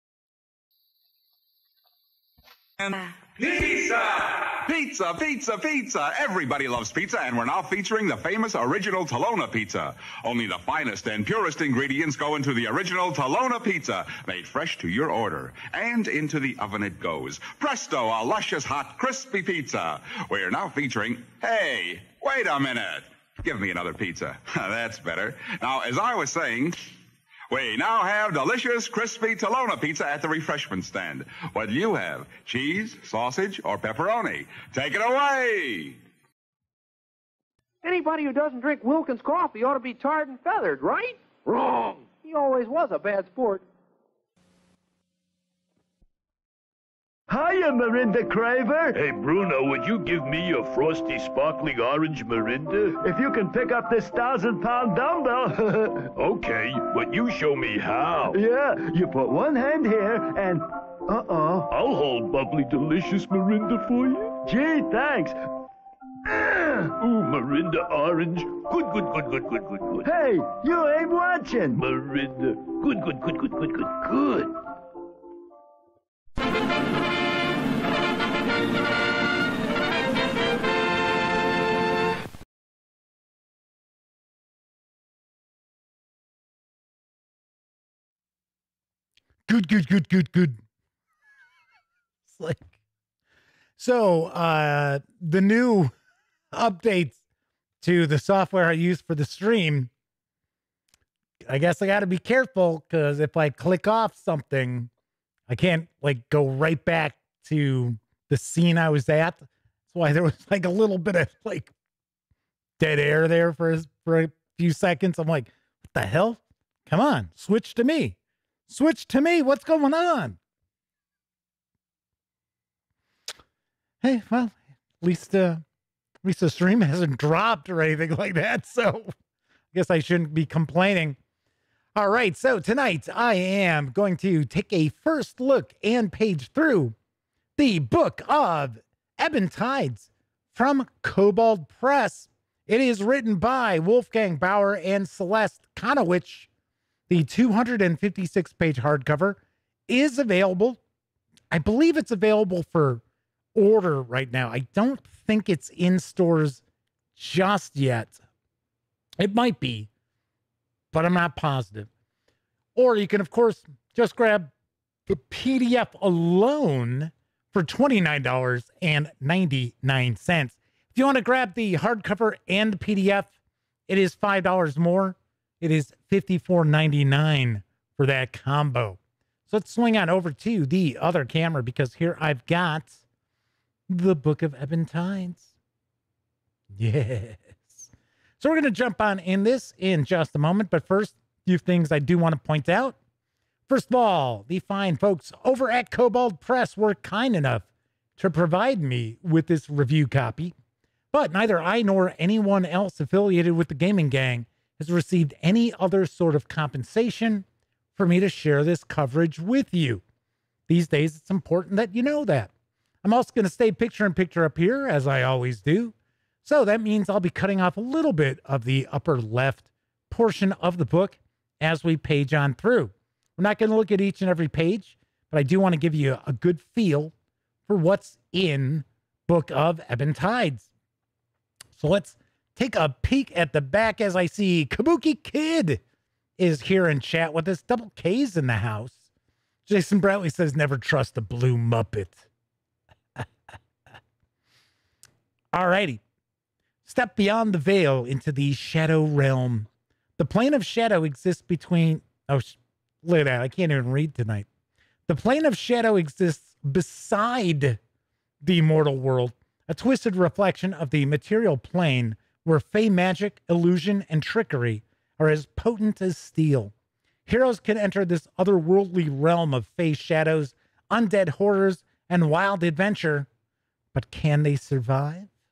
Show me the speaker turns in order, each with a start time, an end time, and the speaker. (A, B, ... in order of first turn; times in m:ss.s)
0:02.8-0:26.9 A
0:27.5-0:36.0 A
0:37.8-0:43.6 B
0:47.3-0:48.9 C
0:48.9-0:53.0 D
0:53.0-0:55.9 C
0:55.9-0:58.4 D
0:58.3-1:01.7 C
1:01.7-1:04.4 D
1:04.4-1:05.4 C
1:07.0-1:10.1 D
1:10.0-1:11.8 C
1:11.7-1:14.5 D
1:29.5-1:30.6 E
1:32.3-1:32.7 E
1:33.8-1:35.9 E
1:36.5-1:37.2 E
1:37.8-1:39.9 E
1:41.5-1:44.9 E
1:45.5-1:51.7 E
1:52.8-1:58.2 E
1:58.7-2:00.4 E
2:04.0-2:05.6 E
2:06.2-2:09.1 E
2:09.7-2:11.2 E
2:11.9-2:16.9 E
2:17.6-2:26.5 E
2:27.1-2:30.8 E
2:31.5-2:33.0 E
2:33.5-2:36.6 E
2:37.2-2:38.2 E
2:39.2-2:39.9 E
2:40.9-2:41.9 E
2:42.7-2:44.5 E
2:45.1-2:53.3 E
2:53.9-3:03.0 E
3:03.9-3:05.5 E
3:06.7-3:13.0 E
3:13.7-3:20.5 E
3:21.1-3:30.0 E
3:30.7-3:32.5 E
3:33.0-3:47.1 E
3:47.7-3:50.7 E
3:51.7-3:55.8 E
3:56.4-3:59.0 E
3:59.7-4:02.2 E
4:05.5-4:06.0 E
4:06.8-4:14.5 E
4:15.1-4:17.8 E
4:18.4-4:26.7 E
4:27.2-4:33.3 E
4:33.9-4:35.3 E